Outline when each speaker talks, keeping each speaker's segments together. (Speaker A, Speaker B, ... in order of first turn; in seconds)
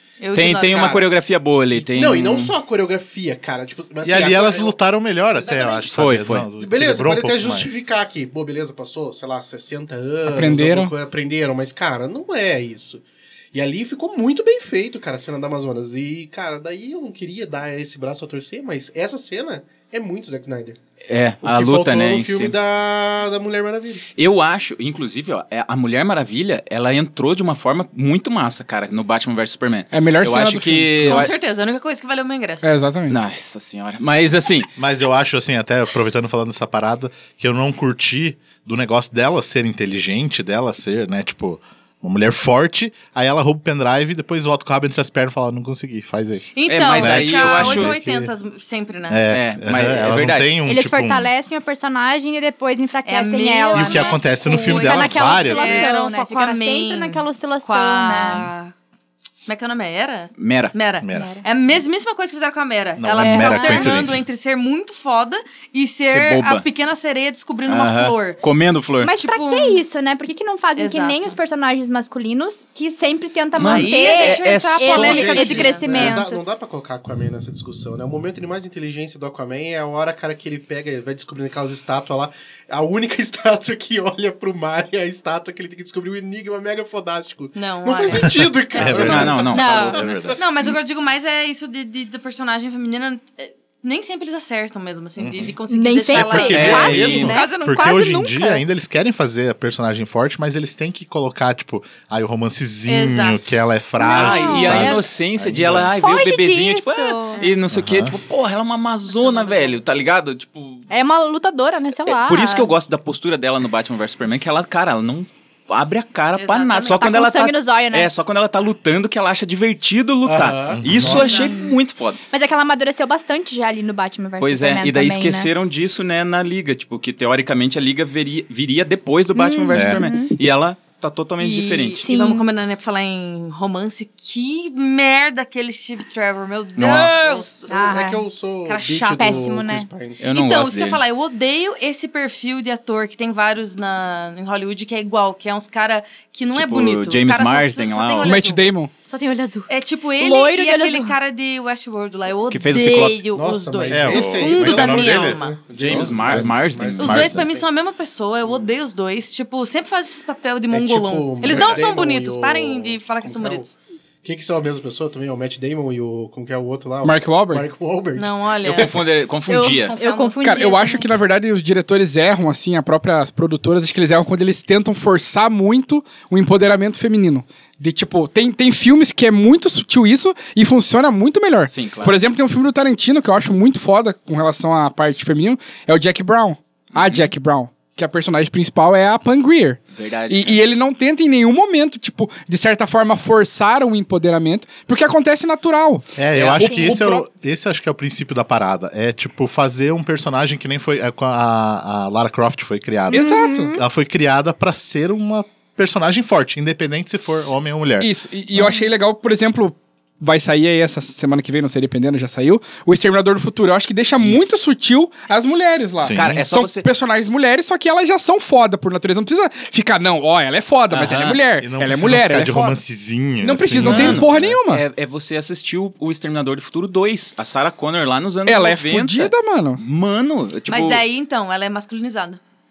Speaker A: 0.2-0.9, 31.1-32.7, 46.5-49.2, 53.0-58.7, 59.5-68.4, 69.1-69.8, 70.8-71.4, 73.5-76.1, 87.5-89.7, 90.3-98.2, 102.9-103.4, 107.3-107.6, 116.4-117.2, 131.4-138.1, 138.6-139.5, 140.3-148.7, 149.7-155.6, 157.0-163.7, 168.2-170.9, 230.7-232.4
Speaker B: 0.3-2.5, 5.9-6.5, 21.1-22.5, 24.1-31.3, 33.1-34.7, 46.6-48.0, 49.3-50.5, 60.4-60.7, 66.1-66.7, 67.7-69.1, 73.5-75.6, 88.8-89.6, 96.5-97.4, 104.0-110.8, 112.0-122.2, 124.4-132.1, 136.8-137.5, 140.2-141.0, 146.5-148.4, 152.5-153.2, 155.7-157.3, 168.6-170.0, 181.7-182.2, 186.9-187.3, 189.9-190.6, 196.3-196.8, 214.2-214.6, 216.1-216.9, 220.9-221.4, 223.7-231.0
Speaker C: 0.6-1.1, 1.7-4.8, 5.3-6.0, 6.6-20.8, 21.4-24.0, 75.0-90.4, 120.2-121.5, 137.7-140.2, 153.3-157.7, 160.7-168.9
Speaker D: 4.0-7.8, 34.8-48.2, 49.1-51.3, 53.7-56.0, 61.0-61.3, 63.0-64.2, 88.3-90.4, 95.2-95.5, 96.1-105.9, 107.7-108.1, 120.7-121.2, 129.7-130.0, 153.9-157.5, 196.1-208.7, 216.0-216.4, 221.6-224.6
Speaker E: 10.3-10.9, 29.9-31.3, 32.6-33.2, 148.2-148.9, 167.0-167.6, 170.4-196.0, 196.6-197.2, 203.1-203.8, 208.0-222.8, 223.4-224.8, 228.4-229.8
Speaker F: 50.6-58.5, 61.1-61.4, 63.2-63.9, 69.0-76.4, 89.4-90.0, 95.7-98.6, 104.0-105.0, 106.0-107.4, 110.9-112.7, 116.9-118.1, 121.3-121.7, 122.3-125.5, 129.3-130.3, 132.0-132.4, 137.7-138.2, 139.1-139.9, 149.1-151.1, 169.5-171.1, 196.6-197.0, 203.1-203.8